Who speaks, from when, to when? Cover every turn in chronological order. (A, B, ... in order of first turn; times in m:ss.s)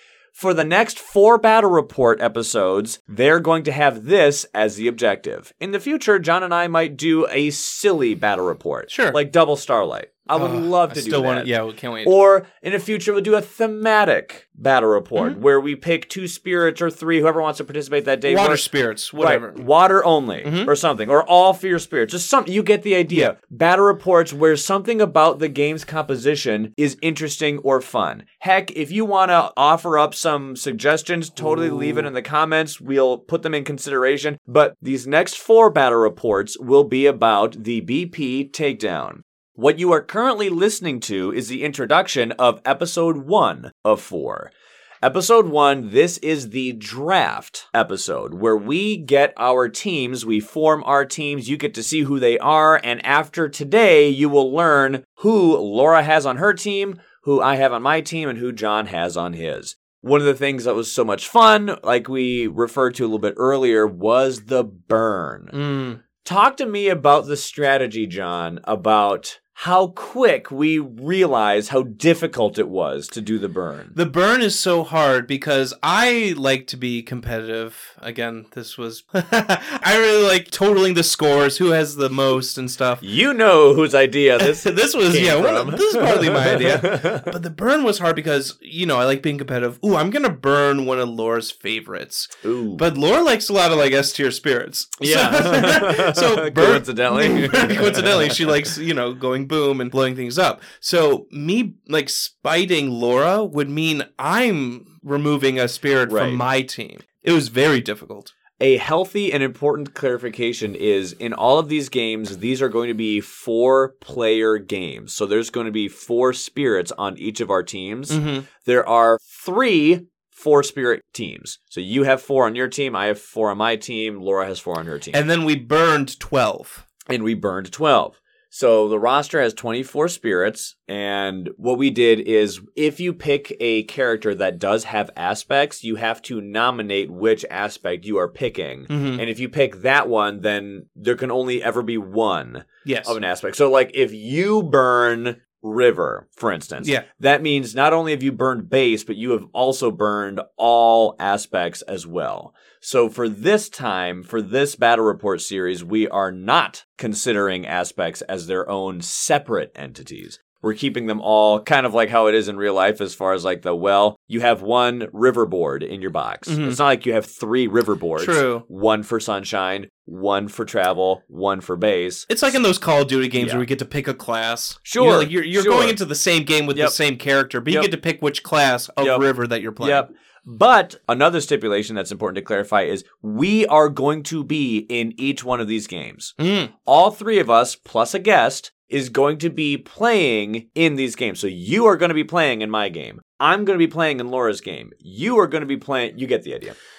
0:00.4-0:11.5 A
0:08.9-0:09.2 B
0:10.4-0:12.1 B
0:12.0-1:05.6 A
0:18.3-0:19.6 B
0:20.4-0:20.7 B
0:31.4-0:32.1 B
1:05.5-1:06.0 B
1:06.2-1:14.0 A
1:14.0-1:23.0 B
1:23.0-1:27.4 A
1:24.4-1:48.3 B
1:32.4-1:32.8 A
1:35.0-1:38.6 A
1:46.1-1:46.4 A
1:48.6-2:05.2 A
1:58.1-1:58.5 B
2:05.1-2:06.8 B
2:07.1-2:52.3 A
2:18.9-2:19.2 B
2:22.8-2:23.2 B
2:26.8-2:27.1 B
2:46.5-2:46.8 B
2:48.2-2:48.6 B
2:52.3-3:00.1 B
2:53.4-2:53.6 A
2:54.8-2:56.0 A
2:59.0-2:59.3 A
2:59.8-3:16.8 A
3:06.4-3:06.7 B